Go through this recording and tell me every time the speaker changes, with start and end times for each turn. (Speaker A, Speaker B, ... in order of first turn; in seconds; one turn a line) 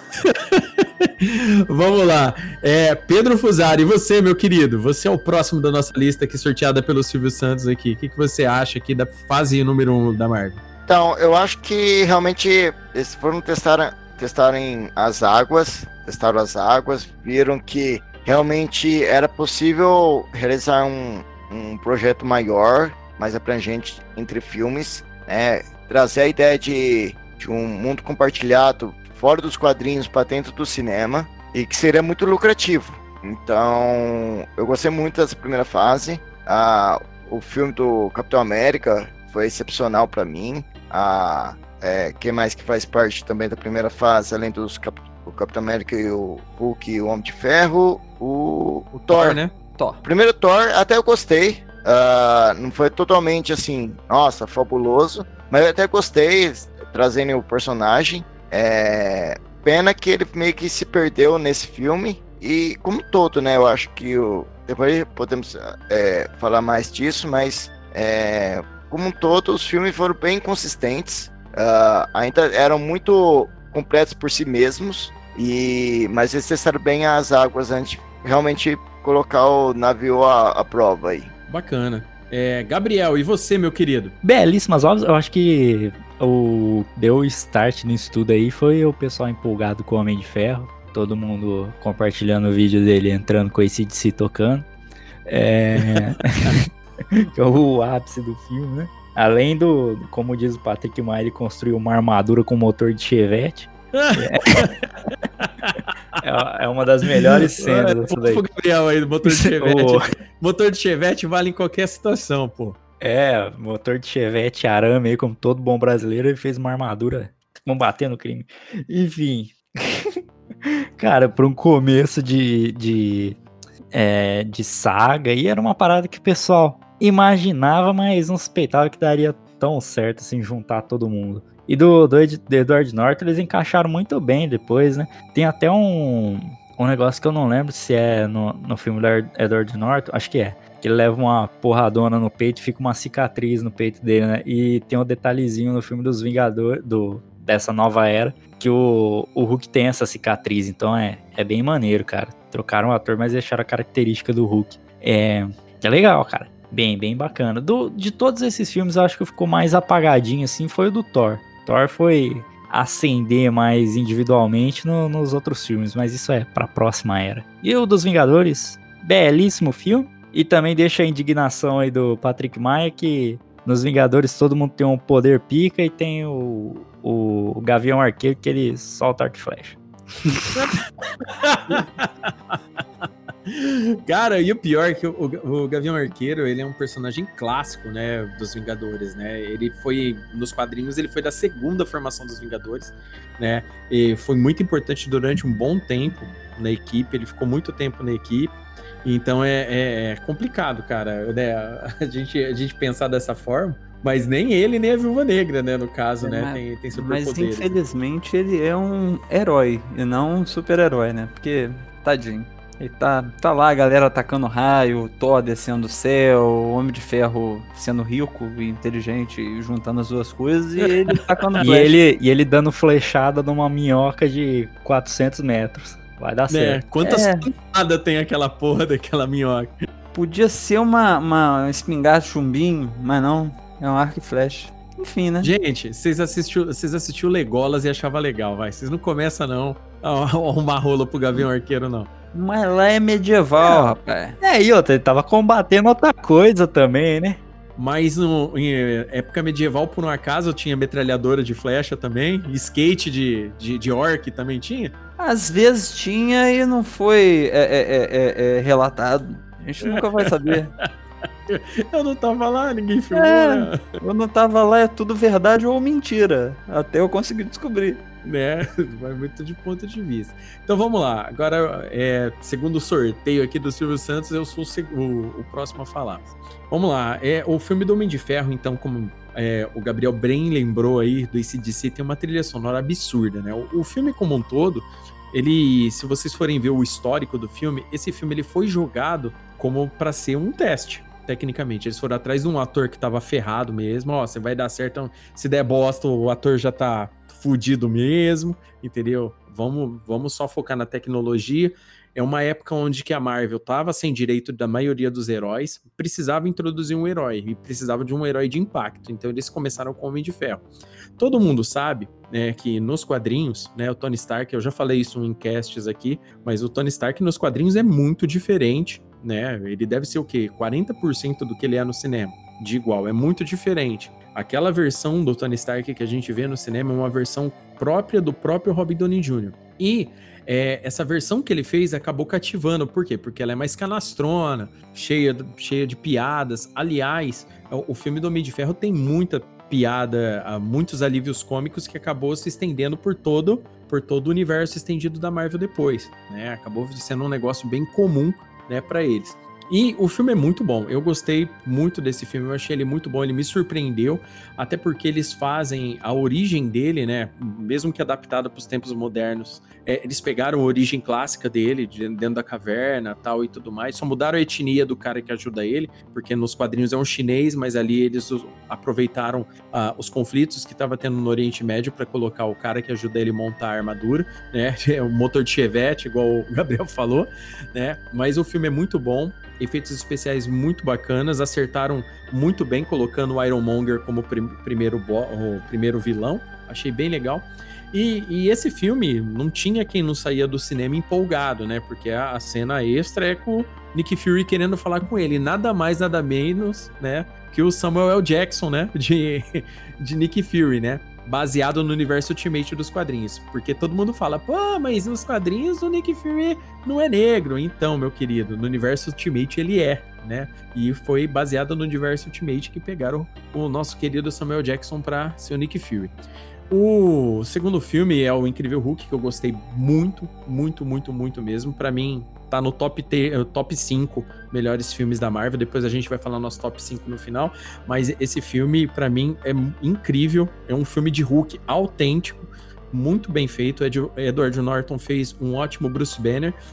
Speaker A: 0.2-10.6
Speaker B: 10.9-49.4
Speaker A: 48.9-49.5
Speaker C: 49.6-50.0
Speaker B: 50.0-81.3
Speaker A: 81.5-84.2
Speaker D: 84.2-94.7
Speaker D: 95.3-104.7
Speaker A: 96.0-96.5
Speaker A: 103.9-104.9
Speaker A: 105.4-106.2
Speaker D: 106.2-108.4
Speaker A: 107.1-112.8
Speaker D: 109.2-110.0
Speaker D: 113.0-120.1
Speaker D: 120.7-123.4
Speaker D: 123.9-180.4
Speaker A: 180.6-182.6
Speaker A: 183.5-207.8
Speaker C: 206.2-221.9
Speaker A: 221.1-221.6
Speaker D: 221.6-226.9
Speaker A: 226.5-229.7
Speaker C: 227.0-227.5
Speaker C: 230.1-235.5
Speaker A: 235.4-242.1
Speaker C: 242.3-244.3
Speaker D: 243.6-247.4
Speaker A: 247.8-254.9
Speaker C: 255.2-260.7
Speaker A: 259.8-260.9
Speaker A: 261.5-264.0
Speaker C: 263.1-268.1
Speaker A: 268.2-310.7
Speaker A: 311.2-416.1
Speaker A: 416.7-436.6